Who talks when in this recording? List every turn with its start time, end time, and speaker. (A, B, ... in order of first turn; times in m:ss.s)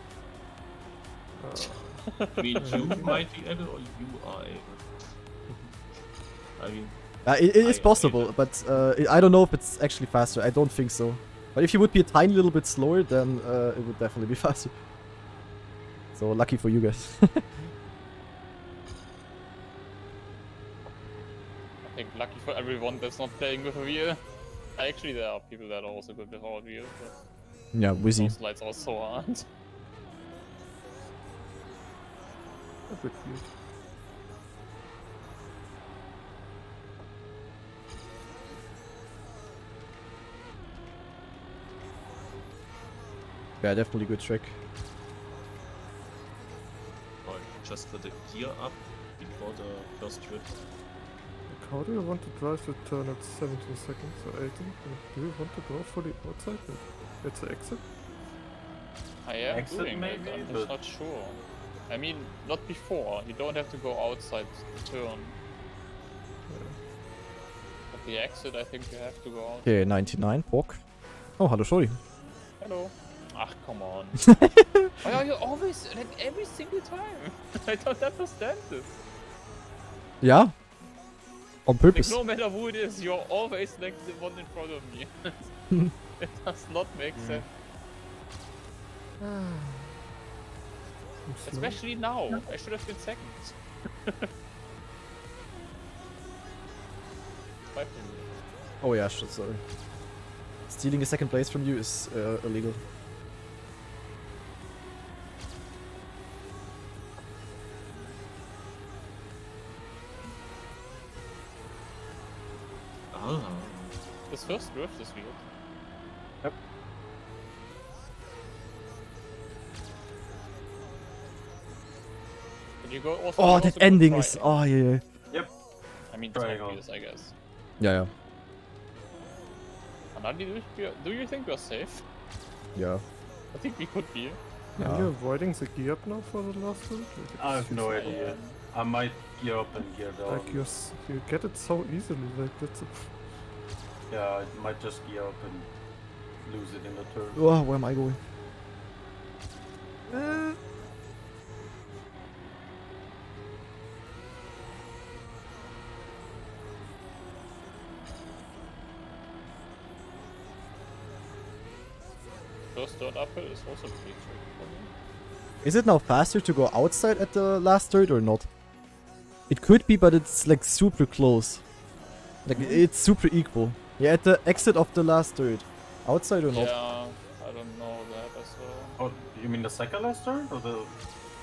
0:01.4-0:03.2 A
0:02.2-0:03.2 B
0:02.4-0:05.7 C
0:06.6-0:07.0 C
0:07.2-0:14.7 D
0:07.6-0:08.4 C
0:16.2-0:17.5 D
0:21.8-0:24.2 B
0:24.8-0:27.2 B
0:27.7-0:28.4 D
0:28.2-0:29.5 B
0:32.9-0:33.5 A
0:43.6-0:44.6 D
0:47.2-0:50.6 C
0:51.5-0:57.9 A
0:59.2-1:05.4 B
0:59.5-1:00.8 E
1:06.5-1:06.8 A
1:07.9-1:10.0 B
1:09.6-1:10.8 D
1:11.4-1:12.0 D
1:12.6-1:14.2 B
1:14.3-1:14.9 D
1:15.0-1:19.0 B
1:20.2-1:20.6 D
1:21.7-1:22.2 D
1:21.9-1:25.3 B
1:26.2-1:27.4 B
1:27.1-1:27.4 E
1:29.2-1:30.0 A
1:31.3-1:31.8 A
1:31.5-1:33.6 B
1:37.7-1:38.4 B
1:38.8-1:39.6 D
1:40.7-1:42.8 D
1:53.1-1:54.0 C
1:54.3-1:55.4 B
2:02.8-2:04.5 B
2:03.4-2:05.0 D
2:06.1-2:07.3 B
2:06.3-2:06.8 E
2:07.8-2:08.1 D
2:10.1-2:12.0 B
2:12.8-2:13.0 D
2:13.5-2:14.4 B
2:14.8-2:15.1 D
2:14.8-2:18.2 A
2:17.4-2:20.7 E
2:17.9-2:18.6 B
2:20.3-2:23.1 A
2:24.1-2:25.7 E
2:26.4-2:27.4 E
2:27.4-2:28.2 D
2:30.1-2:30.4 A
2:42.7-2:44.9 B
2:45.6-2:48.5 D
2:49.5-2:51.6 D
2:52.5-2:56.7 D
2:56.5-2:59.0 B
2:59.0-3:01.0 E